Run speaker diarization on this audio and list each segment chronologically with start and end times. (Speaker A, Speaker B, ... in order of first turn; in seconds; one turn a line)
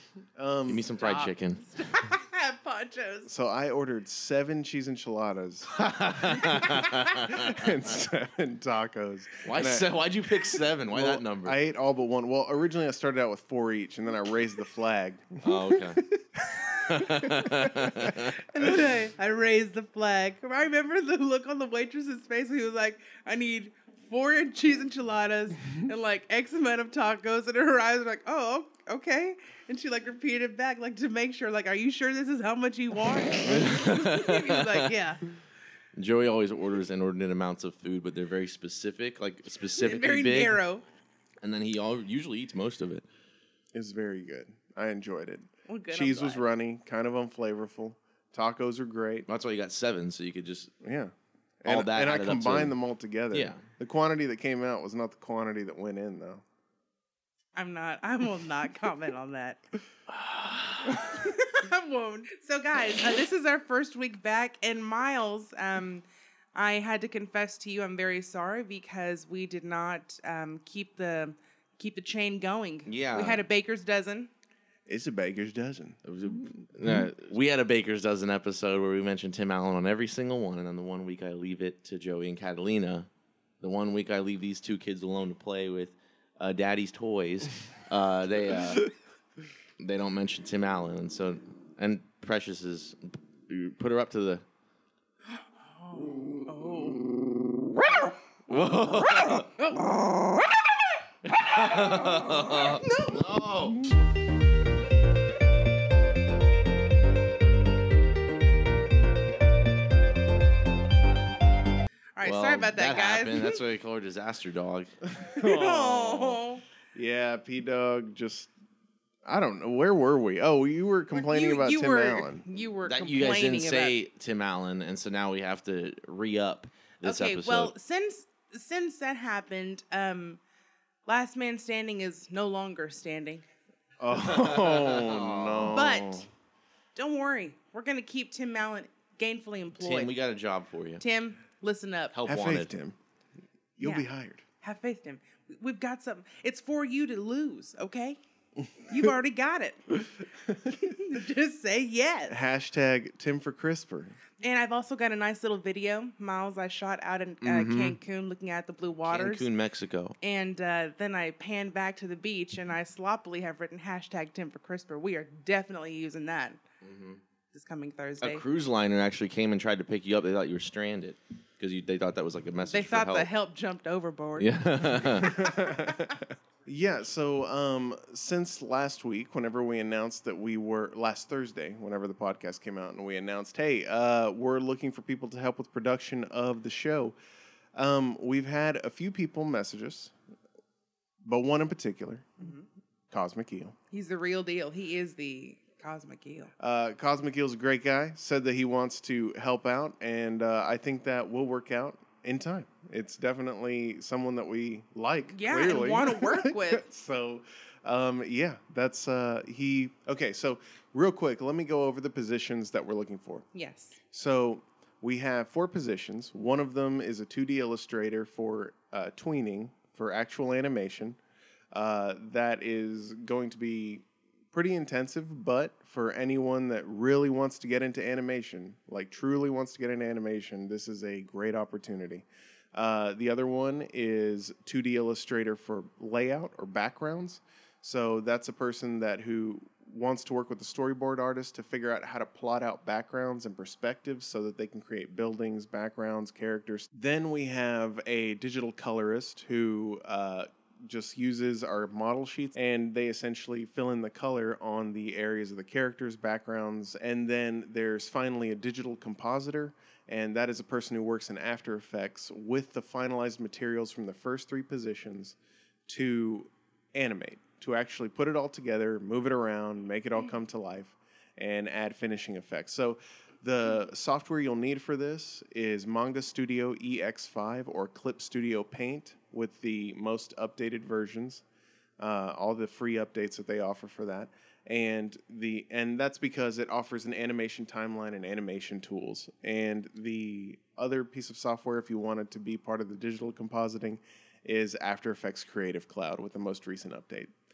Speaker A: 0.3-1.0
Speaker B: 0.6-1.6
Speaker C: 1.0-3.3
Speaker A: 3.2-9.9
Speaker B: 5.7-7.7
Speaker B: 9.4-11.6
Speaker A: 10.9-18.0
Speaker B: 15.4-16.0
Speaker B: 16.8-18.3
Speaker C: 18.2-35.3
Speaker B: 33.4-34.9
Speaker B: 36.0-40.6
Speaker C: 39.6-40.8
Speaker B: 41.4-43.0
Speaker A: 43.7-49.3
Speaker C: 45.7-46.4
Speaker B: 49.3-50.7
Speaker A: 50.8-51.1
Speaker A: 51.6-56.4
Speaker B: 51.6-52.8
Speaker B: 53.3-53.6
Speaker C: 57.5-59.6
Speaker B: 60.2-60.7
Speaker C: 60.8-74.3
Speaker B: 72.8-73.4
Speaker A: 74.9-76.0
Speaker B: 76.0-83.1
Speaker A: 76.8-77.1
Speaker B: 83.6-88.9
Speaker B: 89.8-94.4
Speaker C: 95.3-97.0
Speaker B: 98.0-100.1
Speaker C: 99.2-100.0
Speaker B: 101.2-103.9
Speaker C: 101.7-103.2
Speaker C: 112.2-113.6
Speaker B: 112.2-114.9
Speaker A: 115.1-116.4
Speaker C: 115.3-116.6
Speaker A: 116.9-118.5
Speaker A: 119.2-122.5
Speaker C: 121.1-124.0
Speaker B: 122.8-127.7
Speaker C: 127.0-130.4
Speaker C: 131.1-133.4
Speaker A: 134.0-136.3
Speaker B: 134.1-135.9
Speaker C: 135.7-136.3
Speaker C: 136.9-140.1
Speaker B: 139.8-141.0
Speaker C: 141.0-142.2
Speaker B: 142.1-142.7
Speaker A: 142.2-142.9
Speaker A: 143.8-144.4
Speaker C: 143.8-144.1
Speaker C: 144.6-148.2
Speaker C: 148.8-150.1
Speaker C: 150.6-152.4
Speaker A: 152.3-154.2
Speaker C: 154.4-159.5
Speaker B: 157.4-158.0
Speaker B: 159.0-160.2
Speaker C: 160.2-166.6
Speaker B: 166.8-167.2
Speaker C: 167.5-168.4
Speaker B: 168.2-173.3
Speaker C: 172.7-176.2
Speaker B: 174.4-175.4
Speaker A: 175.2-187.2
Speaker A: 187.7-190.1
Speaker A: 191.2-192.4
Speaker C: 192.4-192.7
Speaker A: 193.1-193.7
Speaker C: 193.9-196.5
Speaker A: 196.6-213.4
Speaker C: 205.3-206.9
Speaker C: 213.5-214.0
Speaker A: 214.1-221.2
Speaker A: 221.7-265.4
Speaker A: 265.9-281.4
Speaker A: 282.0-297.3